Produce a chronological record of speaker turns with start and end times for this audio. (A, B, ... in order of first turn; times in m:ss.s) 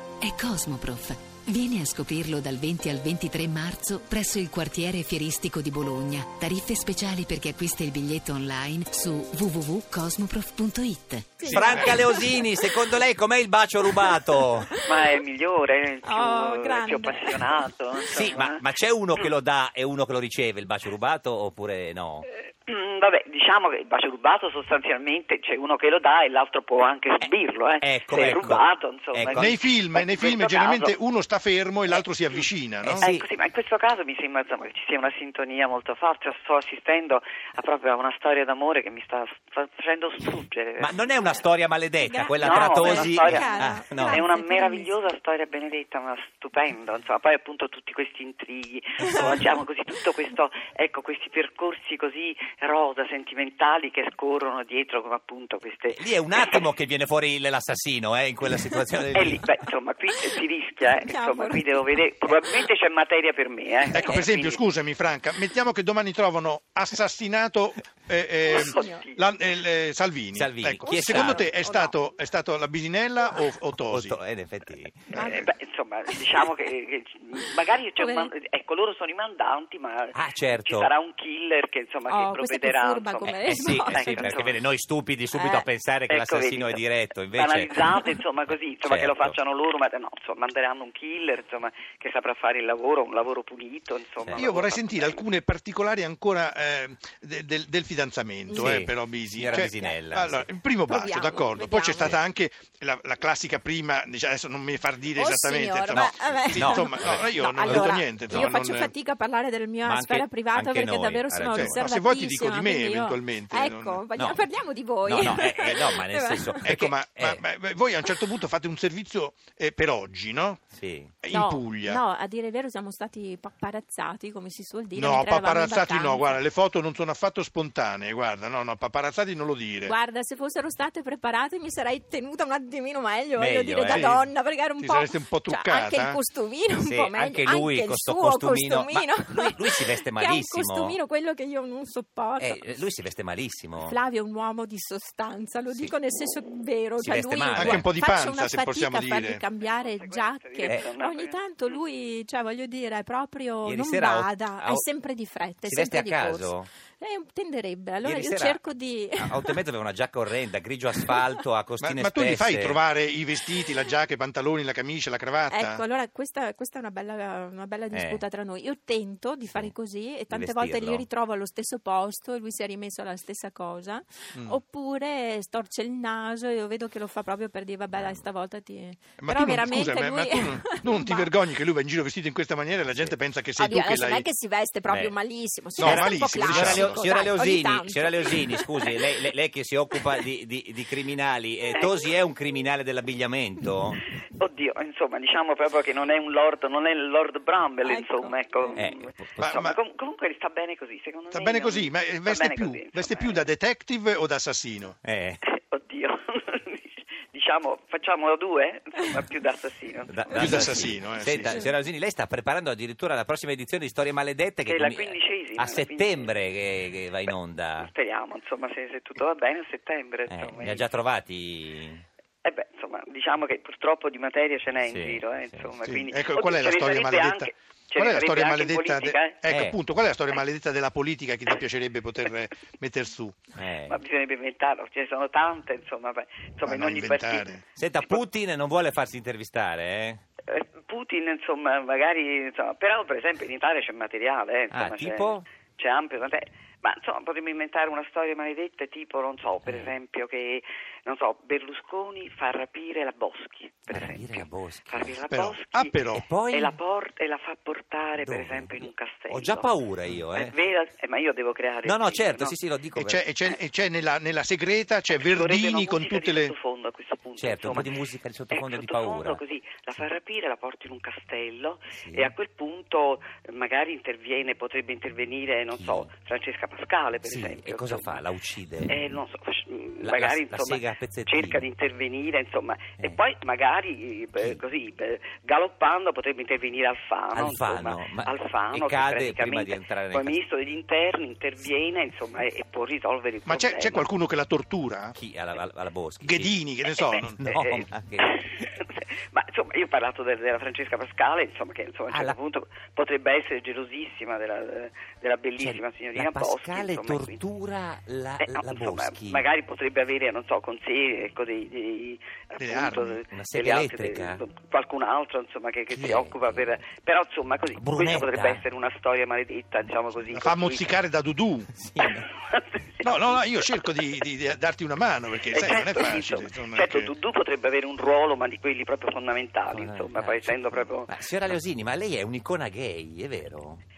0:00.2-0:11.3 A
0:11.4-0:12.4 B
0:11.5-0:12.0 C
0:11.5-0:14.7 D
0:14.0-0:14.9 B
0:14.8-0:18.6 E
0:16.0-0:17.4 B
0:18.0-0:22.3 D
0:22.6-0:30.9 E
0:27.2-0:29.6 D
0:29.3-0:33.0 C
0:32.8-0:33.2 D
0:33.0-0:41.1 E
0:40.8-0:44.2 D
0:42.0-0:44.9 B
0:42.4-0:56.6 E
0:49.2-0:49.4 D
0:55.9-0:59.5 D
0:58.5-0:58.8 B
0:59.1-1:04.6 E
1:00.9-1:02.6 B
1:03.9-1:14.2 C
1:08.5-1:09.2 E
1:08.5-1:09.0 B
1:10.3-1:11.4 D
1:10.8-1:12.0 B
1:13.9-1:15.2 D
1:15.1-1:24.6 E
1:15.1-1:15.5 C
1:18.0-1:18.3 B
1:20.1-1:20.9 D
1:22.1-1:24.2 B
1:23.2-1:28.2 D
1:25.3-1:26.8 E
1:27.3-1:35.2 E
1:28.8-1:29.4 D
1:34.2-1:34.5 D
1:34.3-1:48.9 C
1:38.5-1:40.5 D
1:39.5-1:39.9 B
1:40.8-1:42.1 B
1:45.2-1:56.8 B
1:45.9-1:48.5 D
1:49.8-1:51.8 D
1:51.5-1:54.0 C
1:54.2-1:54.4 D
1:55.0-1:57.4 D
1:56.6-2:00.6 C
2:00.7-2:01.1 D
2:01.2-2:02.0 C
2:01.3-2:06.4 B
2:05.0-2:09.9 C
2:09.8-2:22.8 B
2:13.4-2:14.3 D
2:13.9-2:16.2 C
2:16.8-2:21.0 D
2:22.4-2:24.0 D
2:23.8-2:39.6 B
2:27.0-2:27.8 D
2:27.5-2:29.4 C
2:29.6-2:31.8 E
2:33.6-2:34.8 D
2:35.6-2:36.7 D
2:38.0-2:38.6 D
2:39.2-2:42.8 D
2:41.8-2:45.8 C
2:45.5-3:01.3 B
2:47.9-2:48.2 D
2:50.3-2:51.0 D
2:57.9-2:58.2 D
2:59.2-3:04.3 C
3:03.6-3:09.1 B
3:04.9-3:05.2 D
3:05.8-3:07.1 C
3:05.8-3:14.0 D
3:14.3-3:23.4 E
3:17.8-3:18.8 B
3:18.8-3:19.4 D
3:19.4-3:19.8 C
3:21.3-3:25.0 C
3:25.0-3:25.4 D
3:25.4-3:30.7 E
3:30.1-3:37.9 D
3:30.3-3:31.7 C
3:34.6-3:36.5 E
3:37.8-3:40.8 E
3:40.3-3:42.0 D
3:42.4-3:49.4 E
3:44.8-3:45.7 D
3:45.9-3:53.4 C
3:49.5-3:49.7 D
3:53.6-3:54.0 D
3:53.8-3:57.5 E
3:56.6-3:57.6 C
3:57.8-4:00.2 D
4:00.5-4:16.0 E
4:04.7-4:05.4 D
4:09.6-4:09.9 D
4:13.9-4:15.2 D
4:15.3-4:16.3 C
4:16.1-4:16.8 D
4:16.5-4:19.7 E
4:18.2-4:20.5 D
4:20.3-4:22.5 E
4:21.8-4:23.2 D
4:23.0-4:26.5 C
4:25.1-4:27.9 E
4:27.4-4:29.4 D
4:28.5-4:38.2 E
4:32.0-4:32.3 D
4:35.7-4:36.1 D
4:37.2-4:39.1 D
4:38.9-4:54.1 E
4:40.0-4:41.6 D
4:47.3-4:50.4 D
4:53.4-4:55.2 C
4:55.1-4:56.6 D
4:56.2-4:57.4 C
4:56.9-5:07.4 E
4:57.4-4:58.6 D
5:02.1-5:02.4 D
5:05.6-5:09.4 D
5:08.4-5:21.0 E
5:12.6-5:13.2 C
5:13.3-5:14.4 D
5:15.9-5:16.8 D
5:17.7-5:18.6 D
5:20.3-5:21.7 C
5:21.7-5:22.3 D
5:22.0-5:23.2 E
5:23.0-5:27.1 C
5:25.4-5:31.1 E
5:29.7-5:33.8 D